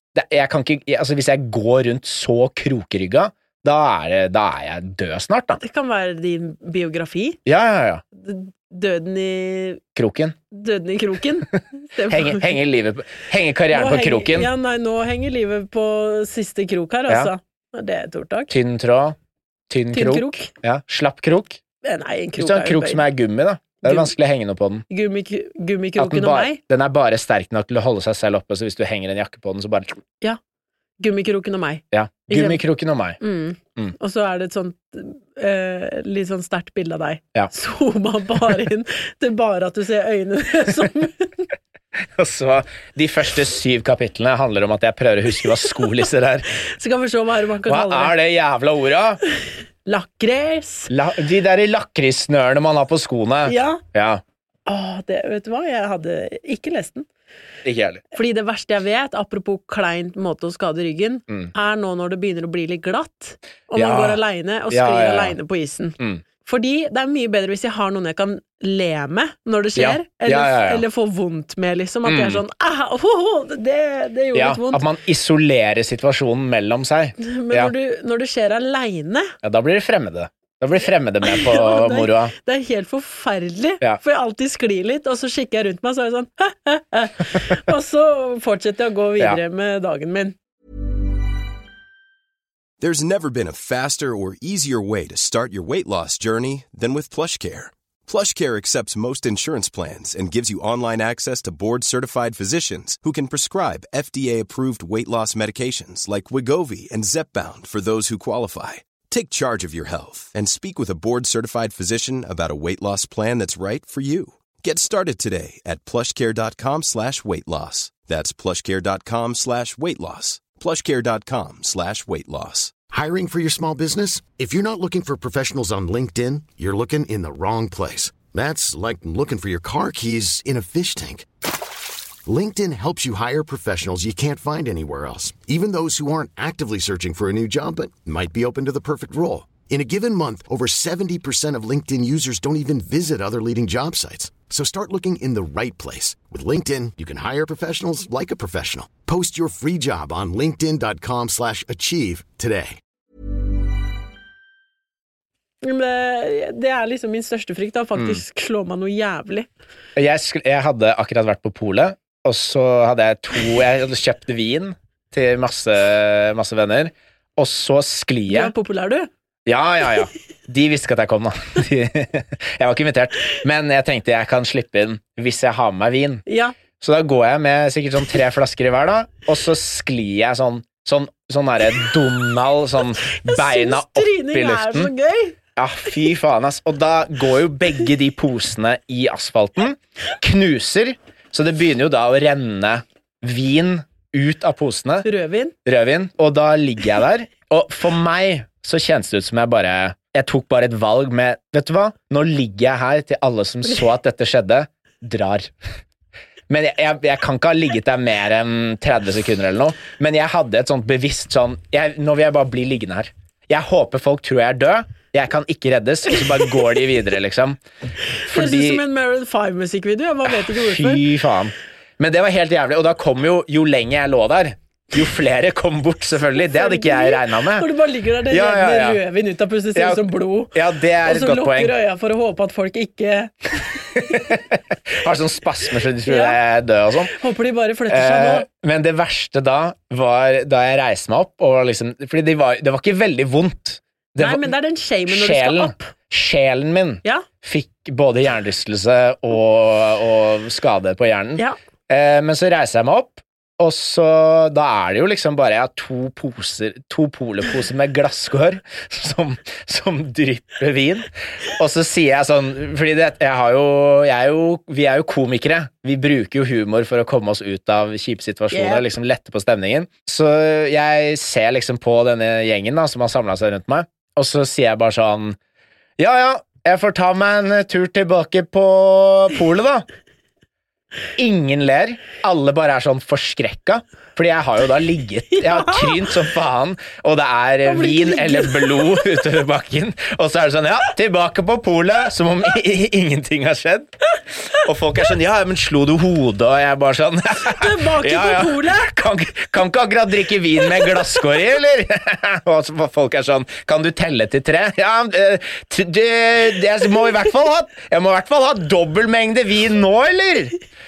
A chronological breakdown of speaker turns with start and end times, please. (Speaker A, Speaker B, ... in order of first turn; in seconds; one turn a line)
Speaker A: 0.1-5.6
Speaker B: 5.6-7.4
Speaker A: 7.5-8.0
Speaker B: 8.2-9.8
Speaker A: 9.9-10.3
Speaker B: 10.5-12.6
Speaker A: 12.1-14.5
Speaker B: 13.7-18.5
Speaker A: 18.5-19.1
Speaker A: 19.7-21.6
Speaker B: 19.9-20.5
Speaker B: 21.8-23.0
Speaker A: 22.4-24.8
Speaker B: 23.8-24.1
Speaker B: 24.9-26.6
Speaker A: 26.0-30.0
Speaker B: 31.0-32.6
Speaker A: 31.9-33.2
Speaker B: 33.2-41.5
Speaker A: 42.0-46.5
Speaker B: 46.6-48.1
Speaker A: 47.6-49.2
Speaker B: 49.9-50.9
Speaker A: 50.9-54.2
Speaker B: 53.4-53.8
Speaker B: 54.6-57.0
Speaker A: 57.6-58.0
Speaker B: 58.1-74.8
Speaker A: 63.7-65.3
Speaker A: 69.8-70.8
Speaker A: 72.0-72.4
Speaker A: 74.3-77.7
Speaker B: 77.2-79.3
Speaker A: 79.4-82.3
Speaker B: 81.2-90.3
Speaker C: 92.8-122.7
Speaker D: 122.9-131.3
Speaker D: 132.2-152.8
Speaker B: 155.6-159.5
Speaker A: 157.9-158.2
Speaker A: 159.9-168.5
Speaker B: 168.3-169.1
Speaker A: 169.4-176.2
Speaker B: 176.2-176.5
Speaker A: 176.8-184.9
Speaker B: 183.1-185.3
Speaker A: 185.6-195.1
Speaker B: 195.0-195.5
Speaker A: 195.6-205.5
Speaker A: 206.5-217.6
Speaker B: 218.2-221.0
Speaker A: 218.2-218.8
Speaker A: 220.3-227.7
Speaker B: 226.3-234.2
Speaker A: 228.3-229.0
Speaker A: 229.7-231.7
Speaker A: 233.9-237.1
Speaker B: 236.0-236.4
Speaker B: 237.1-238.4
Speaker A: 237.9-244.5
Speaker B: 244.2-245.9
Speaker A: 245.1-275.4
Speaker B: 268.5-268.9
Speaker A: 276.0-279.9
Speaker A: 281.1-310.5
Speaker B: 285.3-286.0
Speaker B: 287.6-289.1
Speaker B: 297.5-298.9